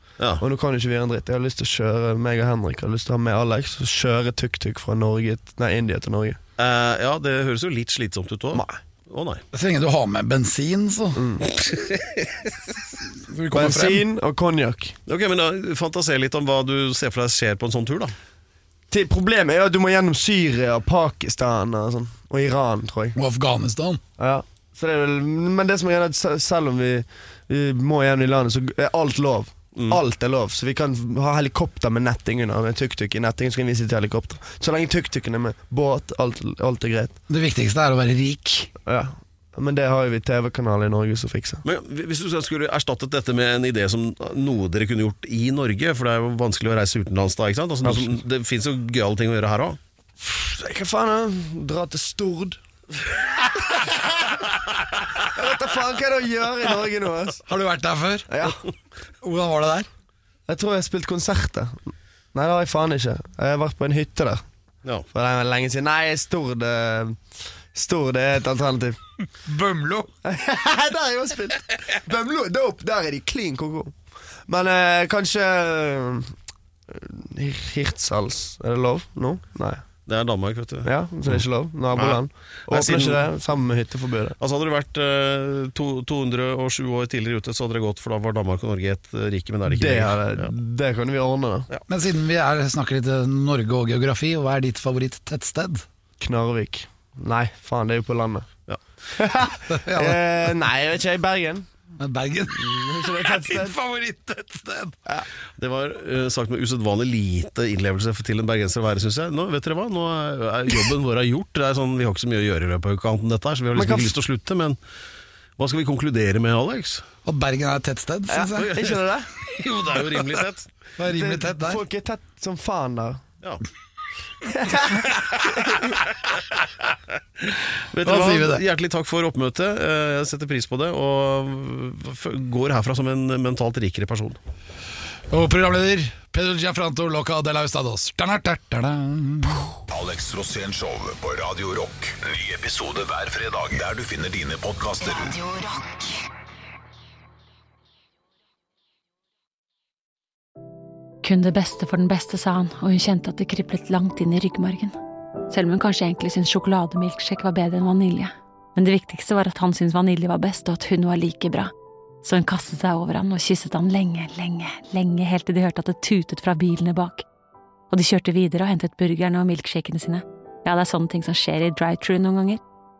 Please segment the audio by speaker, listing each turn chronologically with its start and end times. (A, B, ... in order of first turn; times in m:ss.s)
0:00.4-0:06.4 A
0:06.6-0:09.4 B
0:08.5-0:08.8 A
0:09.5-0:11.4 C
0:11.2-0:11.4 A
0:11.6-0:12.3 B
0:13.2-0:14.0 C
0:13.5-0:15.0 A
0:15.1-0:18.1 B
0:18.9-0:23.2 A
0:23.2-0:24.0 C
0:24.2-0:37.1 A
0:37.3-0:38.7 C
0:38.8-0:41.6 A
0:41.6-0:49.8 B
0:47.8-0:48.2 A
0:50.2-0:52.6 A
0:55.3-0:57.4 A
0:57.4-0:58.4 C
0:58.3-0:58.6 A
0:59.2-0:59.9 C
1:00.5-1:04.4 A
1:05.1-1:07.2 A
1:07.7-1:09.0 A
1:09.4-1:10.1 C
1:10.2-1:13.9 A
1:14.5-1:16.3 A
1:16.9-1:19.8 A
1:20.1-1:21.4 B
1:20.8-1:24.4 A
1:21.9-1:23.2 B
1:24.4-1:30.5 B
1:29.7-1:31.7 A
1:31.9-1:35.8 C
1:36.2-1:38.5 A
1:39.1-1:41.7 A
1:39.7-1:40.2 C
1:42.0-1:45.0 C
1:42.5-1:43.8 A
1:45.6-1:54.8 B
1:53.7-1:54.2 A
1:55.6-1:57.0 B
1:57.2-1:59.0 C
1:58.3-1:59.3 A
1:59.4-2:00.7 B
2:01.0-2:01.8 C
2:01.0-2:03.2 A
2:04.4-2:05.8 A
2:05.5-2:06.0 B
2:07.4-2:14.4 B
2:08.0-2:08.6 C
2:15.3-2:19.7 C
2:19.9-2:25.5 D
2:25.5-2:26.0 E
2:31.2-2:35.0 E
2:35.5-2:41.7 E
2:42.2-2:47.2 E
2:47.9-2:52.6 E